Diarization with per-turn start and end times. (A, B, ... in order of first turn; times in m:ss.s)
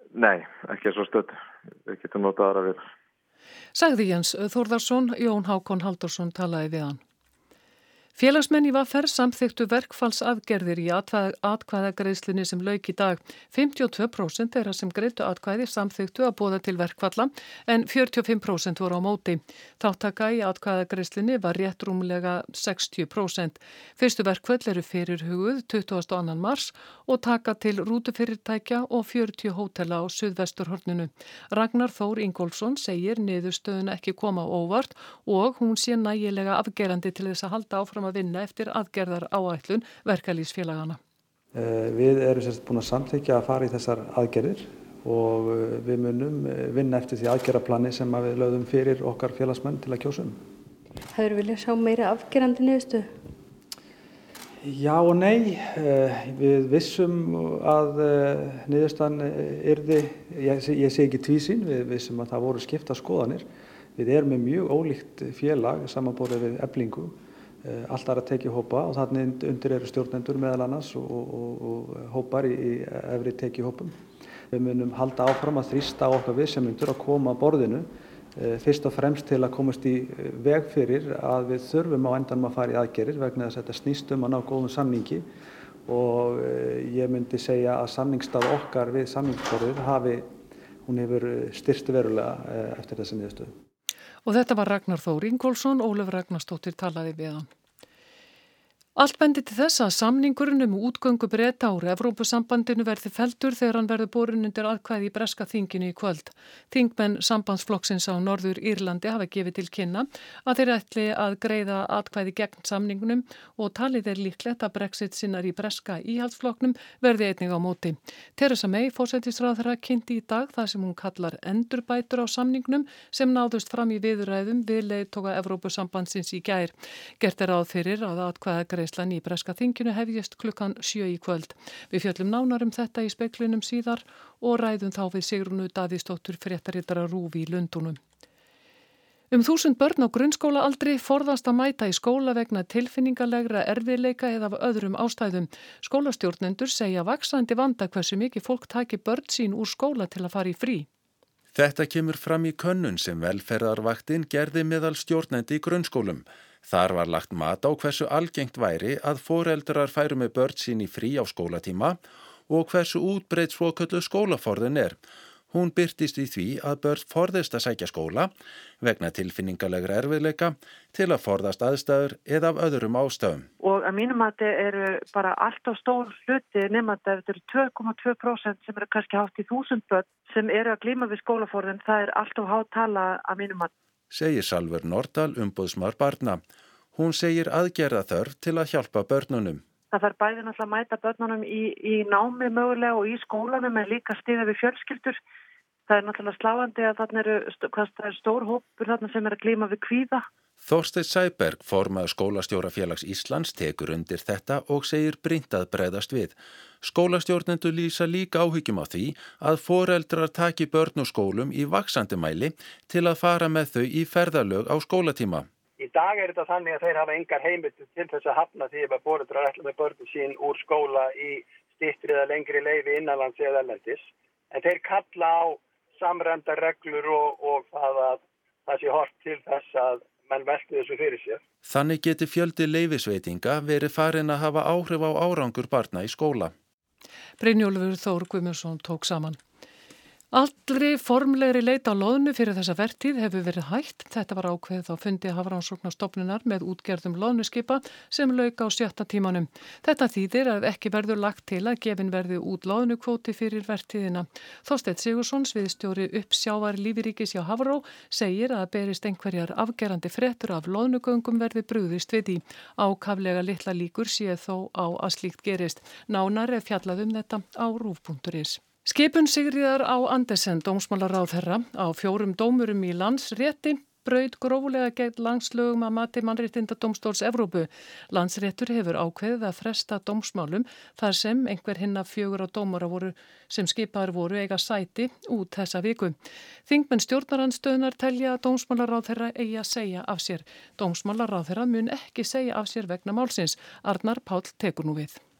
0:00.1-0:02.9 A
0:03.7-0:07.0 B
0:08.2-0:41.0 B
0:41.5-0:50.4 C
0:51.1-0:53.1 D
0:54.6-1:14.0 C
1:14.5-1:25.2 C
1:25.8-1:30.3 C
1:30.8-1:33.5 C
1:34.2-1:37.5 B
1:39.0-2:18.0 B
2:19.3-2:30.9 B
2:31.5-2:42.0 E
2:42.5-2:45.0 E
2:45.5-2:53.5 E
2:53.6-3:03.7 F
3:04.1-3:06.4 E
3:06.9-3:09.6 E
3:09.9-3:15.2 F
3:15.9-3:20.2 F
3:20.6-3:35.5 E
3:35.8-3:51.4 G
3:51.6-3:56.5 E
3:57.4-3:59.4 B
4:00.3-4:46.2 B
4:46.7-4:55.2 B